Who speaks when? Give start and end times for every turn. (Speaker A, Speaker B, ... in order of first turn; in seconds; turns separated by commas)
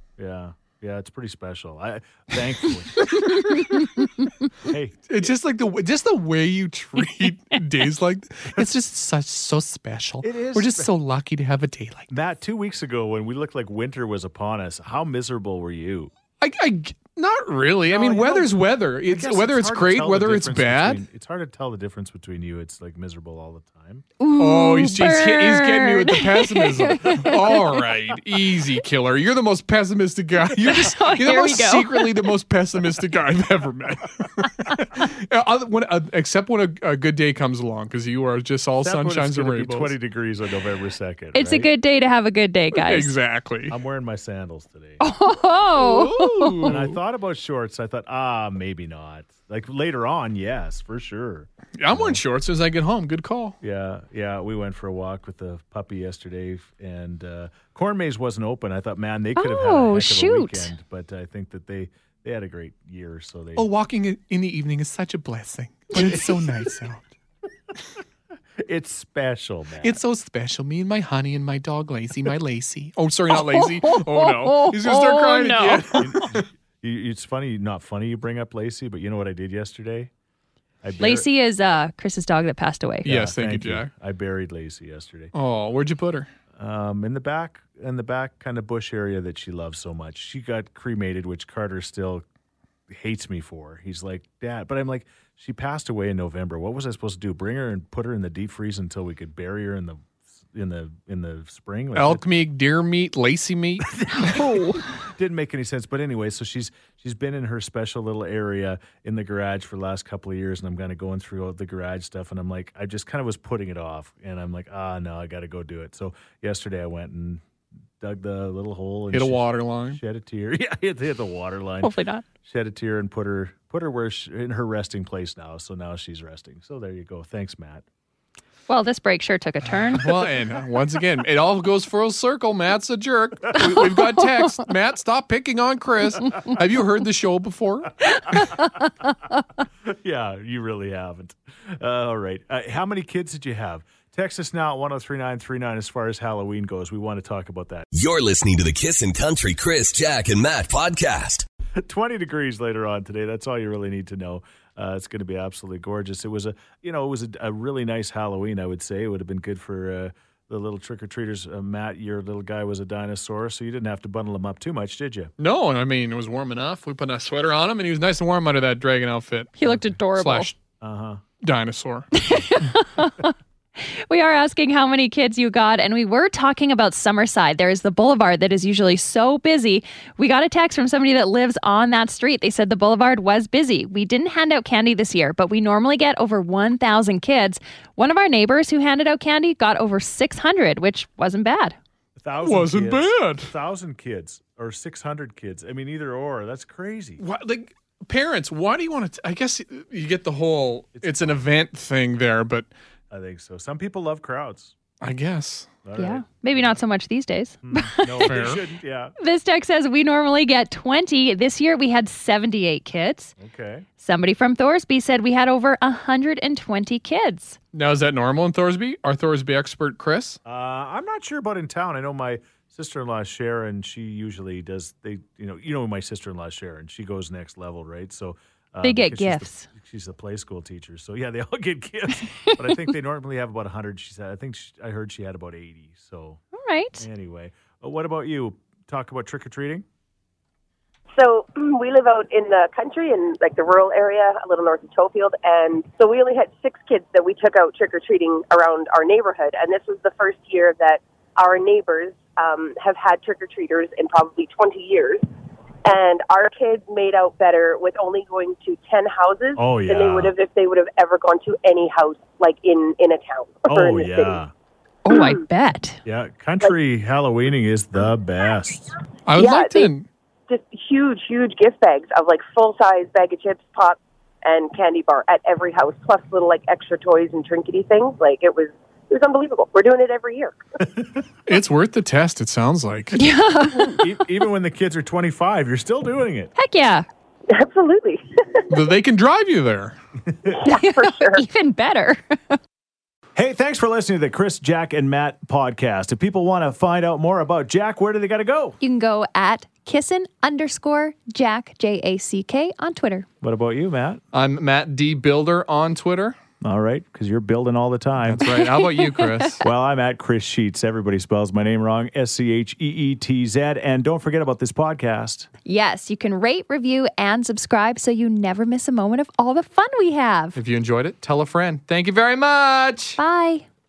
Speaker A: 0.2-3.4, Speaker B: 3.1-4.5, Speaker C: 3.3-3.8, Speaker A: 4.6-5.0, Speaker C: 5.1-12.1, Speaker A: 10.2-10.9, Speaker A: 12.1-16.1, Speaker C: 16.4-21.0, Speaker A: 17.9-24.1, Speaker B: 24.2-27.8, Speaker C: 24.4-40.0, Speaker B: 30.6-32.1, Speaker A: 38.8-41.7, Speaker B: 41.3-43.1, Speaker C: 42.7-43.8, Speaker A: 43.7-45.0, Speaker B: 45.0-46.7, Speaker C: 45.8-47.0, Speaker A: 46.7-52.2, Speaker C: 51.8-53.6, Speaker A: 53.6-63.7, Speaker B: 59.4-60.7, Speaker C: 63.6-67.1, Speaker A: 68.6-70.0, Speaker C: 69.8-76.5, Speaker B: 73.3-76.0, Speaker A: 75.9-80.1, Speaker A: 80.8-81.3, Speaker B: 81.0-83.1, Speaker A: 83.0-85.3, Speaker C: 83.1-83.9, Speaker C: 85.3-86.3, Speaker A: 86.6-92.2, Speaker A: 92.9-102.2, Speaker C: 102.0-104.4, Speaker A: 103.9-117.4, Speaker B: 104.3-104.8, Speaker A: 118.0-121.9, Speaker C: 119.1-120.0, Speaker B: 121.8-122.2, Speaker A: 122.5-127.8, Speaker B: 128.7-130.1, Speaker C: 130.0-137.9, Speaker B: 138.3-138.9, Speaker A: 139.8-147.9, Speaker D: 147.9-151.5, Speaker A: 151.8-165.3, Speaker C: 165.4-170.6, Speaker B: 169.6-170.5, Speaker A: 170.8-171.2, Speaker C: 171.4-172.1, Speaker B: 172.1-173.3, Speaker B: 174.1-191.8, Speaker A: 192.2-197.2, Speaker C: 192.4-193.5, Speaker C: 197.2-202.7, Speaker A: 201.0-201.4, Speaker A: 203.1-204.8, Speaker C: 205.0-205.7, Speaker A: 205.8-206.8, Speaker B: 206.0-208.4, Speaker A: 207.7-209.1, Speaker C: 208.3-208.6, Speaker B: 209.2-213.3, Speaker A: 213.4-213.9, Speaker B: 214.0-217.6, Speaker C: 217.7-220.4, Speaker A: 220.4-236.4, Speaker B: 228.8-229.7, Speaker B: 232.2-232.9, Speaker B: 236.5-237.1, Speaker A: 237.0-239.8, Speaker E: 241.1-255.2, Speaker E: 255.8-264.4, Speaker A: 259.6-260.3, Speaker A: 263.7-264.5, Speaker B: 265.1-266.0, Speaker E: 265.1-265.4, Speaker A: 266.1-268.9, Speaker C: 269.3-270.1, Speaker E: 269.4-269.9, Speaker E: 270.5-280.6, Speaker C: 281.5-283.2, Speaker B: 283.1-284.0, Speaker A: 283.9-286.5, Speaker B: 286.6-287.1, Speaker E: 287.5-288.7, Speaker C: 288.7-290.0, Speaker A: 290.3-290.6, Speaker E: 290.5-291.4, Speaker B: 290.7-292.6, Speaker A: 293.4-298.8, Speaker B: 298.8-303.3, Speaker A: 303.4-304.2, Speaker C: 304.3-306.4, Speaker A: 306.6-308.6, Speaker C: 308.3-309.6, Speaker B: 308.6-309.6, Speaker A: 309.6-315.5, Speaker B: 315.7-320.6, Speaker C: 320.6-323.2, Speaker B: 323.2-323.6